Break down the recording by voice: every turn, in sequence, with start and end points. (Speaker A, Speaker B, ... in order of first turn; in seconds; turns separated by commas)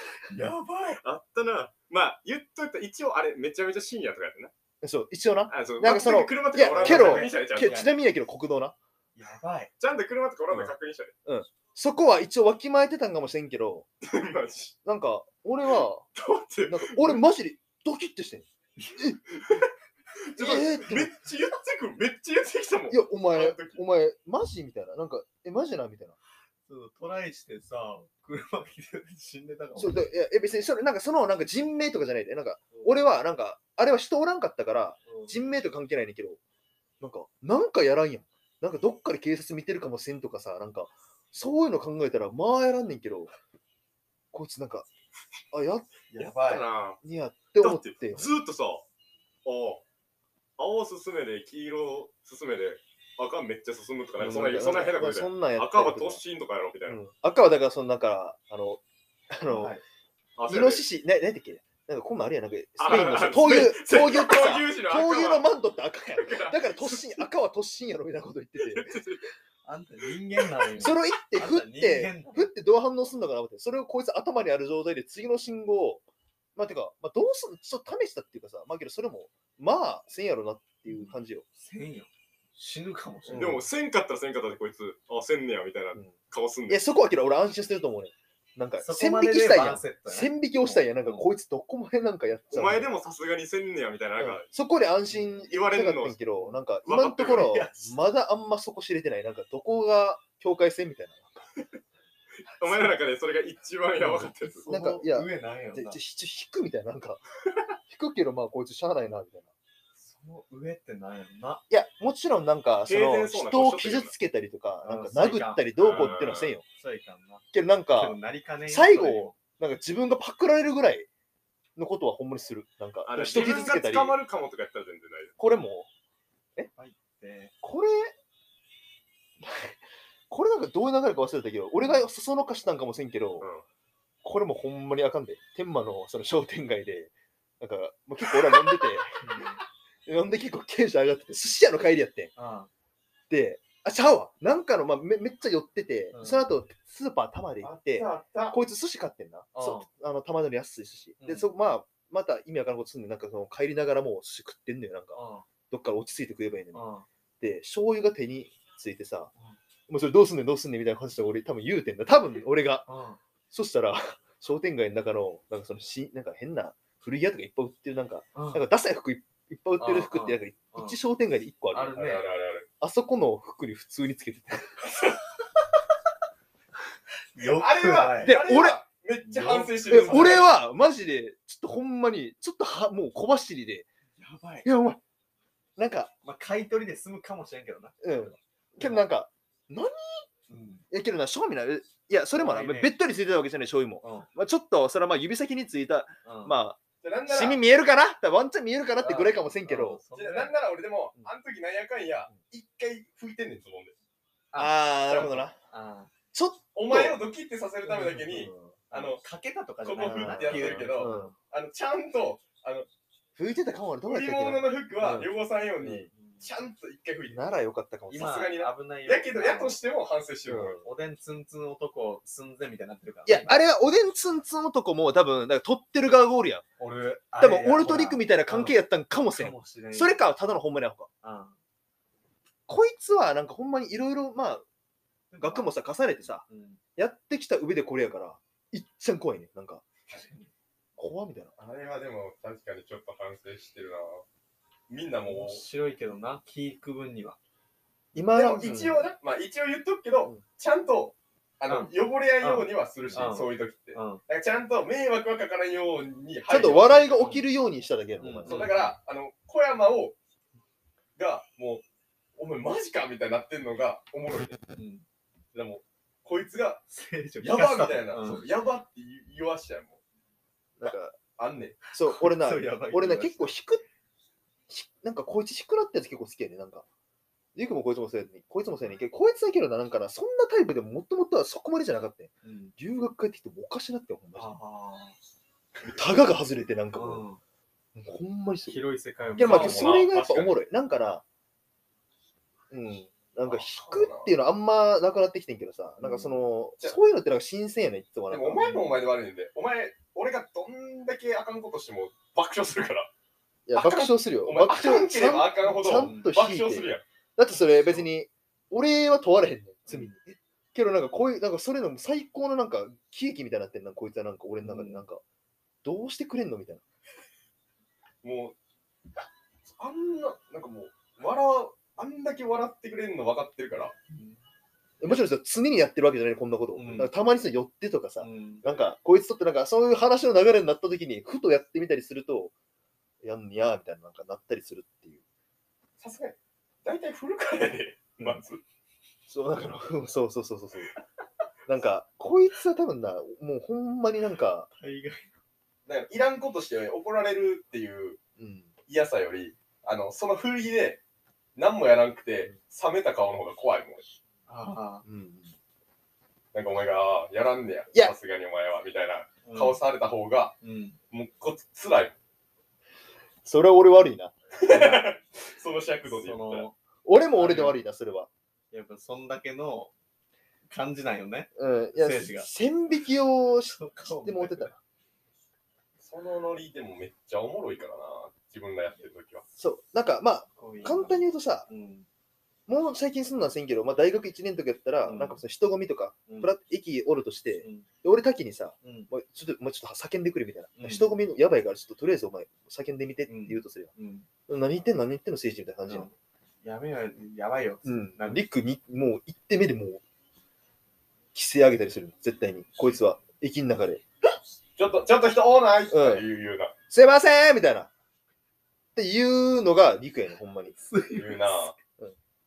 Speaker A: 0.3-1.0, Speaker B: 1.0-4.5, Speaker C: 4.8-8.8, Speaker B: 5.5-7.8, Speaker A: 6.7-8.0, Speaker A: 9.2-9.7, Speaker B: 9.8-11.1, Speaker C: 11.2-13.9, Speaker B: 14.0-14.8, Speaker C: 14.8-16.1, Speaker B: 16.1-17.2, Speaker C: 16.7-18.5, Speaker A: 18.8-19.0, Speaker B: 19.4-19.6, Speaker B: 20.2-23.8, Speaker C: 20.4-21.1, Speaker C: 22.9-26.1, Speaker A: 26.7-30.1, Speaker C: 29.8-36.4, Speaker A: 32.7-33.1, Speaker A: 35.1-35.4, Speaker C: 37.0-43.3, Speaker C: 44.3-44.9, Speaker C: 45.5-46.0, Speaker A: 46.1-46.7, Speaker B: 46.2-47.0, Speaker C: 47.0-48.3, Speaker B: 47.6-48.9, Speaker B: 49.5-49.8, Speaker B: 50.6-57.0, Speaker A: 54.2-54.6, Speaker C: 54.2-56.2, Speaker C: 56.9-59.8, Speaker A: 59.5-59.8, Speaker B: 60.4-60.9, Speaker C: 60.5-68.9, Speaker B: 62.8-65.5, Speaker B: 66.2-67.2, Speaker B: 68.6-69.2, Speaker A: 69.7-72.5, Speaker C: 70.8-76.0, Speaker C: 76.6-81.4, Speaker A: 80.9-83.6, Speaker C: 83.3-83.6, Speaker B: 83.3-86.8, Speaker C: 86.7-92.9, Speaker A: 88.8-91.3, Speaker B: 92.5-94.5, Speaker C: 94.2-101.5, Speaker B: 95.5-96.2, Speaker B: 96.8-97.7, Speaker A: 97.4-97.8, Speaker B: 102.6-104.7, Speaker A: 104.0-106.0, Speaker C: 104.7-107.2, Speaker C: 107.9-109.5, Speaker A: 110.0-111.6, Speaker C: 111.7-116.6, Speaker B: 112.9-114.1, Speaker A: 114.8-116.2, Speaker B: 115.8-116.5, Speaker A: 116.8-117.4, Speaker C: 117.5-121.1, Speaker A: 118.0-119.4, Speaker C: 121.8-124.2, Speaker B: 123.0-125.4, Speaker A: 123.3-123.7, Speaker C: 125.4-125.9, Speaker A: 126.8-127.5, Speaker C: 127.6-128.1, Speaker C: 129.4-129.8, Speaker C: 130.3-133.5, Speaker C: 134.2-139.2, Speaker A: 139.2-139.6, Speaker C: 140.1-142.3, Speaker A: 142.4-142.7, Speaker C: 143.3-156.8, Speaker A: 146.1-146.4, Speaker B: 147.6-148.6, Speaker A: 149.5-149.9, Speaker A: 151.2-151.5, Speaker A: 155.2-155.5, Speaker A: 156.7-157.1, Speaker C: 157.4-159.3, Speaker C: 159.9-162.9, Speaker A: 162.9-163.2, Speaker C: 163.5-172.2, Speaker A: 168.3-168.7, Speaker A: 169.8-171.0, Speaker A: 171.7-172.2, Speaker B: 171.9-172.7, Speaker C: 172.8-174.7, Speaker A: 177.3-178.4, Speaker B: 177.4-180.5, Speaker C: 178.2-178.8, Speaker A: 179.2-180.4, Speaker C: 179.9-183.9, Speaker A: 184.2-184.7, Speaker C: 184.7-185.0, Speaker C: 185.8-186.1, Speaker A: 186.2-187.9, Speaker C: 188.0-190.2, Speaker A: 190.5-190.8, Speaker C: 190.9-200.0, Speaker A: 192.3-192.9, Speaker A: 194.0-194.3, Speaker A: 196.2-196.6, Speaker B: 197.0-197.6, Speaker A: 199.0-200.5, Speaker B: 200.2-203.9, Speaker A: 204.5-206.1, Speaker C: 204.6-205.6, Speaker B: 205.1-205.4, Speaker C: 206.3-207.2, Speaker B: 206.8-209.2, Speaker C: 207.9-208.8, Speaker A: 208.9-211.3, Speaker B: 209.8-212.9, Speaker C: 210.0-211.4, Speaker C: 213.4-216.1, Speaker B: 214.1-217.6, Speaker A: 216.1-216.5, Speaker C: 217.3-218.3, Speaker A: 218.1-219.8, Speaker B: 218.1-220.8, Speaker C: 220.5-220.8, Speaker A: 220.8-223.6, Speaker C: 223.3-226.7, Speaker A: 226.8-228.8, Speaker C: 227.4-231.1, Speaker A: 229.3-230.2, Speaker A: 231.2-231.6, Speaker C: 232.7-234.7, Speaker A: 235.3-236.8, Speaker C: 235.4-236.4, Speaker C: 237.0-239.8, Speaker A: 240.1-240.5, Speaker C: 241.0-241.5, Speaker B: 241.6-244.2, Speaker B: 244.9-245.6, Speaker A: 245.3-247.4, Speaker C: 248.2-249.0, Speaker B: 248.3-257.2, Speaker A: 248.6-249.0, Speaker A: 251.7-254.2, Speaker C: 256.5-258.9, Speaker A: 257.2-257.4, Speaker A: 258.2-258.9, Speaker B: 258.5-260.2, Speaker B: 261.2-261.8, Speaker B: 262.4-264.6, Speaker A: 264.8-265.1, Speaker B: 265.5-266.8, Speaker A: 266.9-268.5, Speaker B: 267.4-270.0, Speaker C: 270.8-271.2, Speaker B: 271.4-271.8, Speaker A: 271.9-273.5, Speaker C: 271.9-273.9, Speaker C: 274.7-276.9, Speaker C: 277.6-284.6, Speaker A: 282.4-282.8, Speaker A: 284.4-285.2, Speaker C: 286.0-287.2, Speaker A: 286.9-287.4, Speaker C: 287.9-288.8, Speaker A: 288.7-289.9, Speaker C: 289.4-291.2, Speaker B: 289.4-290.6, Speaker C: 292.7-298.9, Speaker B: 293.5-294.3, Speaker A: 296.0-296.4, Speaker B: 298.3-303.1, Speaker A: 298.7-299.0, Speaker C: 303.7-315.2, Speaker B: 303.7-307.0, Speaker A: 305.9-306.4, Speaker A: 309.9-310.2, Speaker A: 314.6-315.0, Speaker C: 315.8-316.8, Speaker B: 318.2-318.6, Speaker B: 319.8-323.9, Speaker A: 324.1-324.4, Speaker C: 325.0-332.5, Speaker A: 326.8-327.1, Speaker A: 328.2-328.9, Speaker C: 333.2-335.2, Speaker B: 336.0-338.6, Speaker C: 339.3-340.9, Speaker C: 341.7-344.7, Speaker A: 344.8-345.3, Speaker B: 345.9-348.2, Speaker C: 348.4-348.7, Speaker B: 348.9-351.0, Speaker B: 351.6-354.0, Speaker A: 354.5-355.0, Speaker C: 355.1-355.6, Speaker B: 356.5-360.6, Speaker A: 359.4-359.8, Speaker A: 360.6-361.0, Speaker B: 361.1-362.1, Speaker C: 363.4-364.4, Speaker B: 364.6-366.7, Speaker A: 364.7-365.1, Speaker A: 366.1-366.8, Speaker C: 367.1-368.3, Speaker A: 367.4-367.8, Speaker A: 368.7-369.9, Speaker A: 370.7-372.5, Speaker C: 371.6-374.7, Speaker A: 373.7-374.8, Speaker B: 376.0-379.4, Speaker C: 379.6-381.7, Speaker A: 380.6-382.1, Speaker C: 382.7-393.9, Speaker A: 385.1-385.4, Speaker A: 386.3-386.5, Speaker A: 387.6-387.9, Speaker A: 388.8-389.1, Speaker A: 390.8-391.1, Speaker A: 393.3-394.3, Speaker C: 394.5-396.1, Speaker A: 395.9-398.4, Speaker C: 397.9-400.0, Speaker C: 401.3-404.0, Speaker B: 404.8-406.7, Speaker C: 405.9-406.3, Speaker C: 406.9-407.9, Speaker C: 409.0-410.8, Speaker A: 410.8-411.7, Speaker B: 411.1-411.8